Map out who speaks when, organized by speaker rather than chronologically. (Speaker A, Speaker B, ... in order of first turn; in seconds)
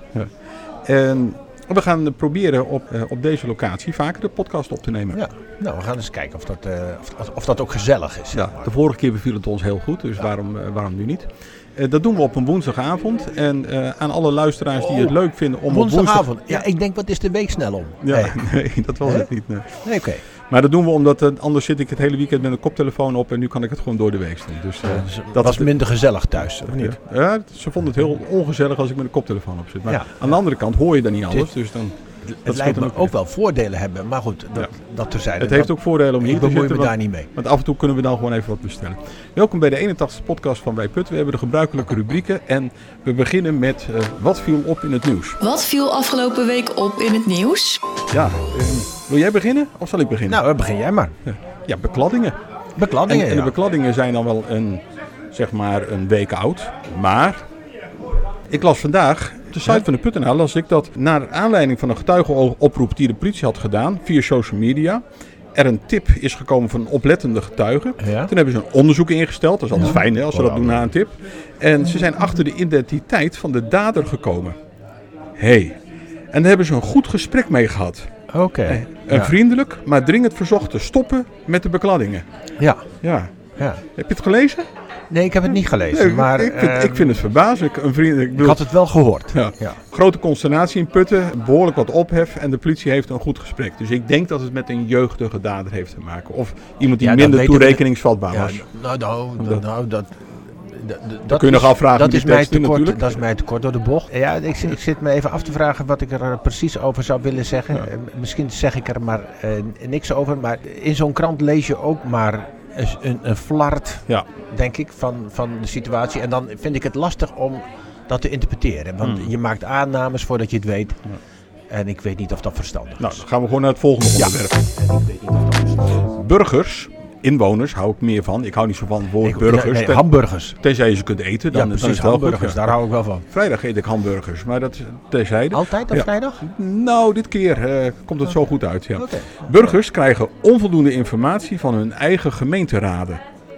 Speaker A: 0.8-5.2, 8.3-16.6, 18.0-19.9, 20.5-25.7, 26.6-31.9, 32.5-33.1, 35.4-45.4, 48.1-50.4, 51.3-52.4, 53.0-57.5, 58.5-65.0, 65.5-74.5, 75.4-75.8, 76.3-78.1, 78.7-82.2, 83.0-83.3, 83.9-84.7, 85.9-88.7, 89.3-98.7, 101.3-103.2, 119.0-119.3, 123.0-124.6, 126.0-130.1, 130.6-132.7, 133.3-143.2
Speaker B: 5.1-8.7, 14.8-15.2, 15.7-18.4, 19.0-19.3, 19.8-20.2, 24.8-27.0, 29.9-30.3, 32.2-37.3, 50.3-51.1, 52.8-53.5, 68.0-68.3, 69.8-70.9, 78.3-79.3, 82.6-82.9, 83.6-83.8, 85.1-87.2, 88.4-89.8, 97.0-121.0, 121.7-123.2, 124.2-126.0, 129.2-130.6, 131.5-133.2, 135.5-136.4, 139.0-139.3
Speaker C: 45.4-47.8